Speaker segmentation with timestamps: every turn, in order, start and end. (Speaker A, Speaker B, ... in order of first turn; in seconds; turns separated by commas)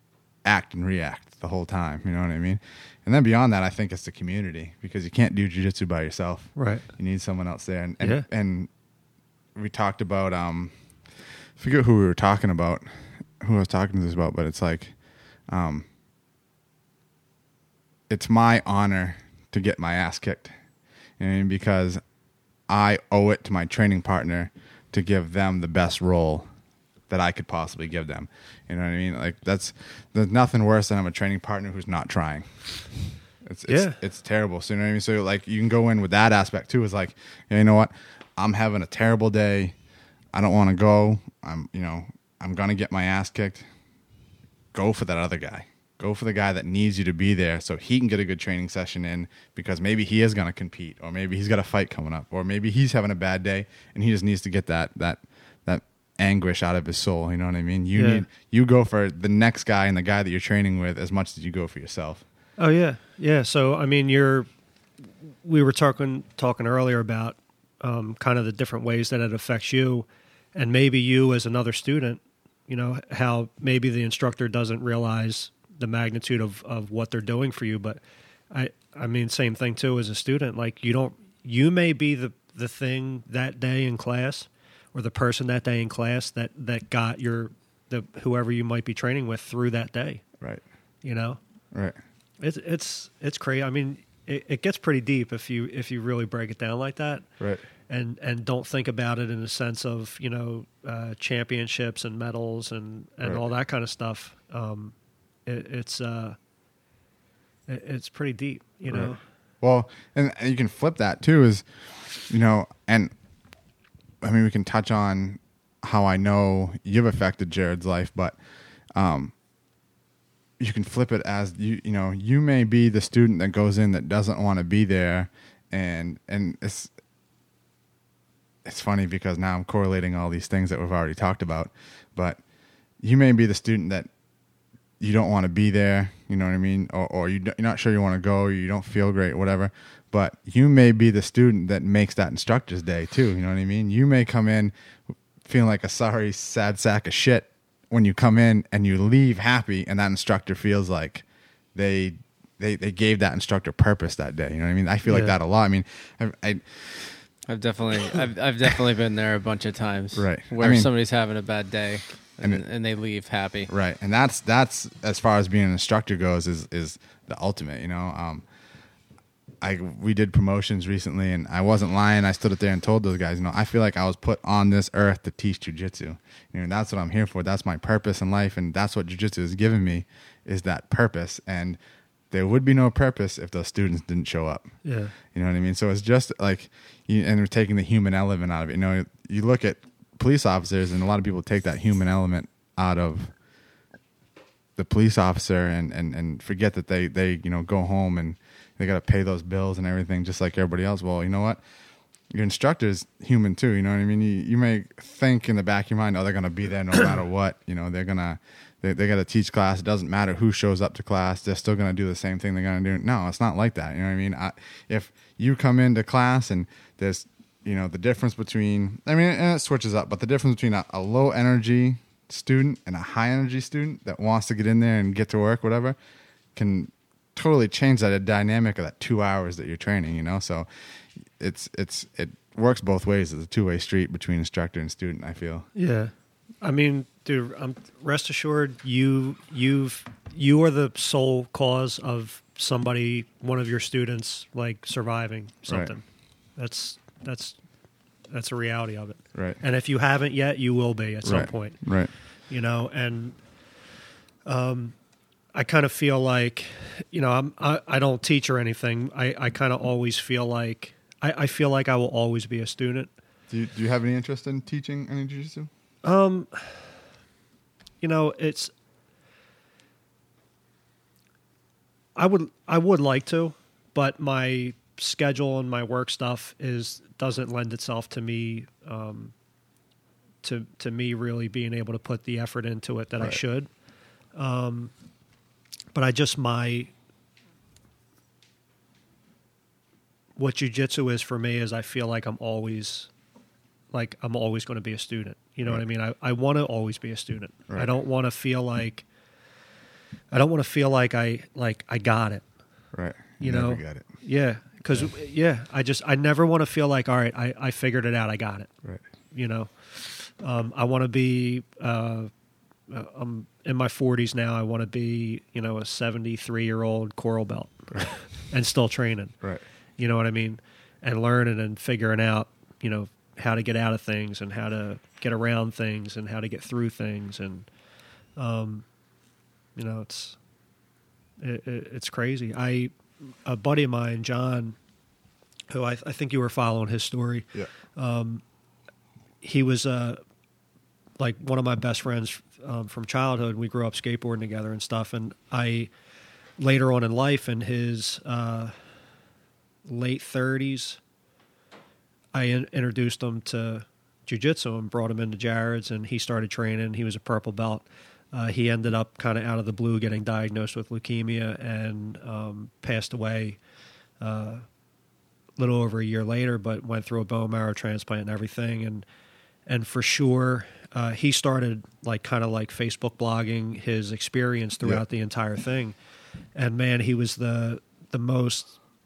Speaker A: 0.4-8.7, Speaker B: 6.6-6.9, Speaker B: 8.0-8.3, Speaker A: 9.6-15.9, Speaker A: 18.1-20.5, Speaker A: 21.2-22.0, Speaker A: 22.7-26.5, Speaker A: 27.1-39.8, Speaker B: 33.7-34.0, Speaker A: 40.3-43.7, Speaker A: 44.7-62.2, Speaker B: 58.0-58.2, Speaker B: 62.6-64.5, Speaker B: 65.4-78.0, Speaker B: 78.5-90.2, Speaker B: 91.0-91.4, Speaker A: 91.7-92.0, Speaker B: 92.4-97.3, Speaker A: 97.4-97.7, Speaker B: 97.9-104.9, Speaker B: 105.5-106.4, Speaker B: 107.7-109.2, Speaker A: 108.9-113.1, Speaker A: 114.2-118.4, Speaker A: 118.9-119.3, Speaker A: 120.6-126.9, Speaker A: 128.7-132.4, Speaker A: 133.0-134.1, Speaker A: 135.0-157.3, Speaker B: 155.1-155.4, Speaker C: 157.5-163.7, Speaker A: 160.2-160.9, Speaker A: 163.7-168.4, Speaker A: 169.6-181.8, Speaker A: 182.3-193.3, Speaker B: 184.8-185.1, Speaker A: 194.8-201.6, Speaker A: 202.3-226.0, Speaker A: 226.6-235.7, Speaker B: 235.8-246.0, Speaker B: 246.6-247.6, Speaker B: 248.3-251.9, Speaker A: 249.3-249.6, Speaker A: 251.2-252.1, Speaker B: 252.5-253.4, Speaker B: 254.5-254.9, Speaker B: 255.5-263.1, Speaker A: 263.5-265.7, Speaker B: 266.0-266.9, Speaker B: 268.0-268.7, Speaker B: 272.2-279.3, Speaker B: 280.4-283.7, Speaker B: 284.3-284.9, Speaker B: 285.9-286.9, Speaker B: 290.4-293.1, Speaker B: 293.9-299.0, Speaker A: 297.7-297.9, Speaker B: 300.3-302.4, Speaker A: 302.9-304.1, Speaker B: 303.4-308.7, Speaker B: 309.3-312.3, Speaker B: 312.9-319.4, Speaker B: 320.0-327.7, Speaker B: 328.4-328.9, Speaker B: 329.8-330.4, Speaker B: 331.4-334.8, Speaker B: 335.7-338.4, Speaker B: 339.4-340.2, Speaker B: 341.2-345.9, Speaker B: 346.6-348.8, Speaker B: 349.9-351.0, Speaker B: 352.3-363.6, Speaker B: 364.2-364.6, Speaker B: 365.6-369.1, Speaker B: 369.7-376.0, Speaker B: 376.6-378.8